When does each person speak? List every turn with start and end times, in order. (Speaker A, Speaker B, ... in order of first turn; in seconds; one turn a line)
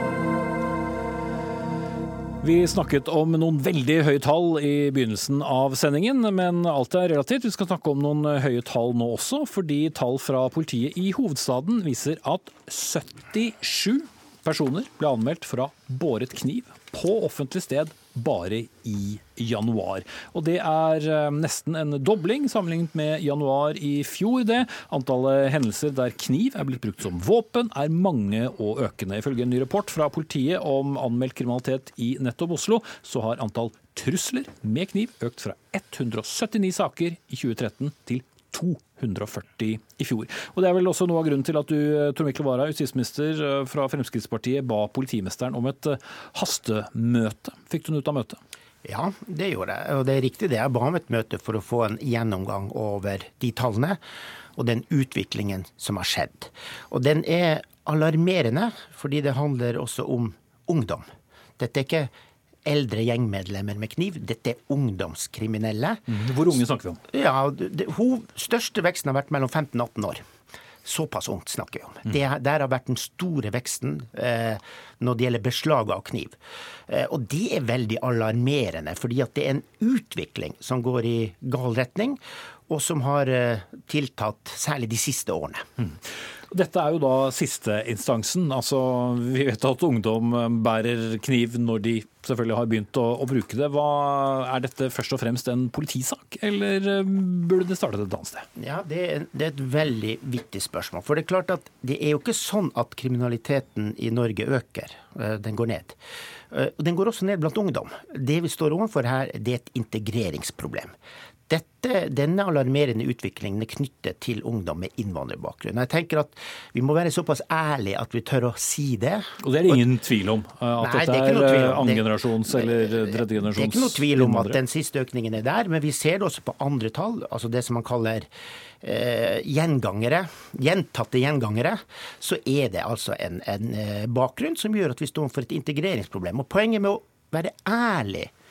Speaker A: 2.4-48.4
Speaker B: 48.8-54.0
Speaker B: 54.6-61.1
Speaker B: 61.6-62.1
Speaker B: 62.6-66.1
Speaker A: 66.1-67.0
Speaker B: 67.1-70.2
Speaker B: 70.8-76.4
Speaker B: 76.9-85.7
Speaker A: 86.5-98.5
Speaker B: 98.6-106.0
Speaker B: 106.5-110.9
Speaker B: 111.5-119.9
Speaker A: 119.4-124.6
Speaker B: 120.8-128.3
Speaker B: 128.8-138.3